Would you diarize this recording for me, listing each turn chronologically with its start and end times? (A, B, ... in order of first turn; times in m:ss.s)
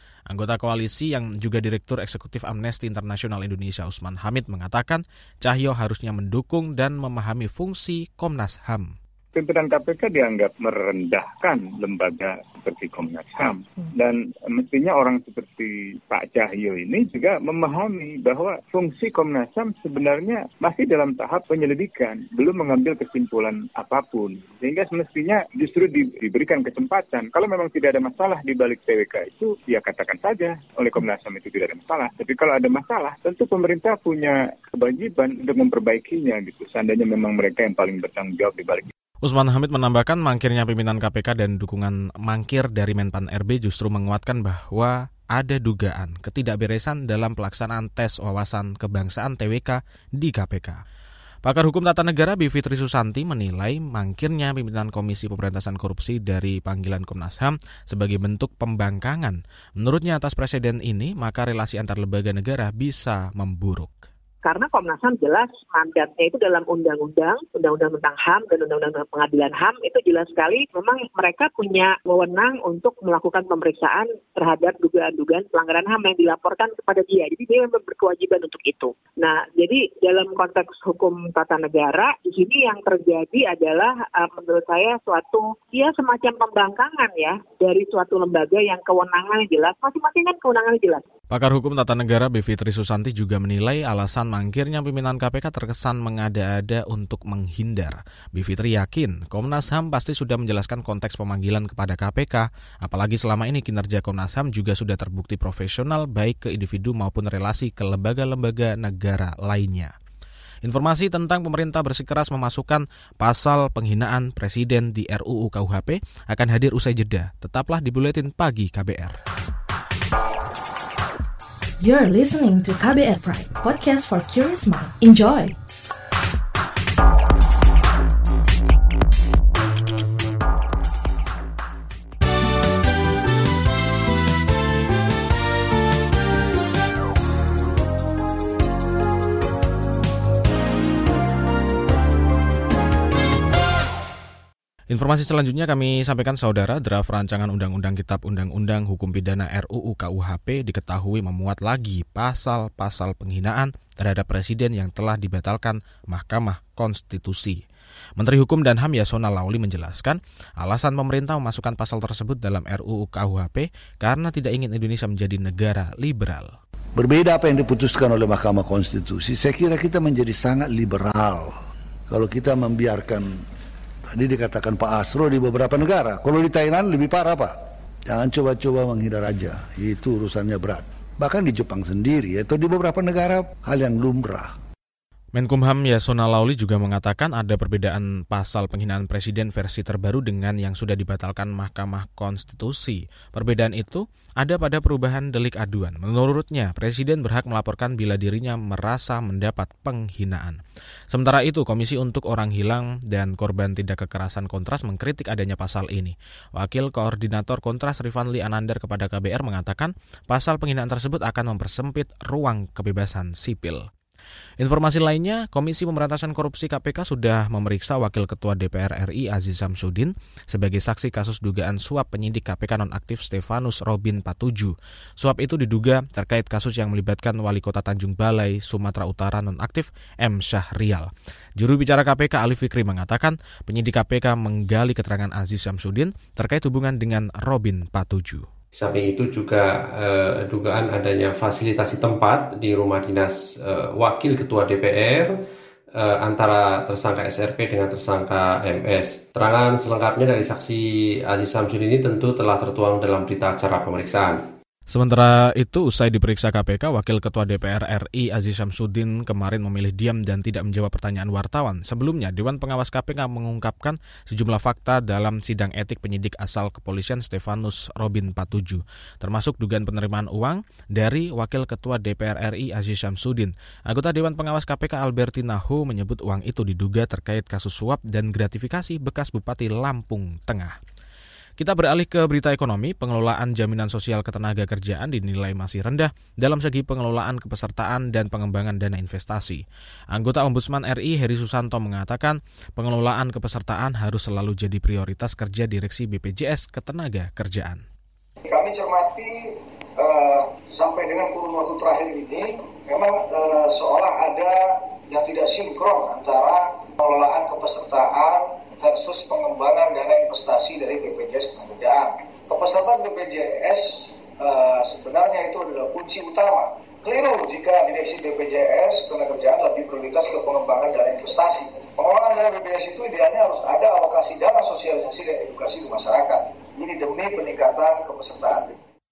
0:00.3-0:08.9 A
0:09.3-0:38.9 B
0:39.2-0:50.8 A
0:51.4-1:04.0 A
1:04.4-1:31.0 C
1:31.3-1:49.9 A
1:50.6-1:59.2 A
2:01.8-2:05.6 D
2:24.9-2:37.6 A
2:38.2-2:46.5 A
2:47.0-2:51.6 E
2:52.1-2:53.4 E
2:54.1-3:04.5 E
3:05.3-3:20.6 A
3:21.1-3:33.9 A
3:34.6-3:58.5 A
3:58.7-4:05.4 F
4:05.9-4:14.4 F
4:14.9-4:40.8 A
4:41.6-4:57.8 A
4:58.4-5:28.8 G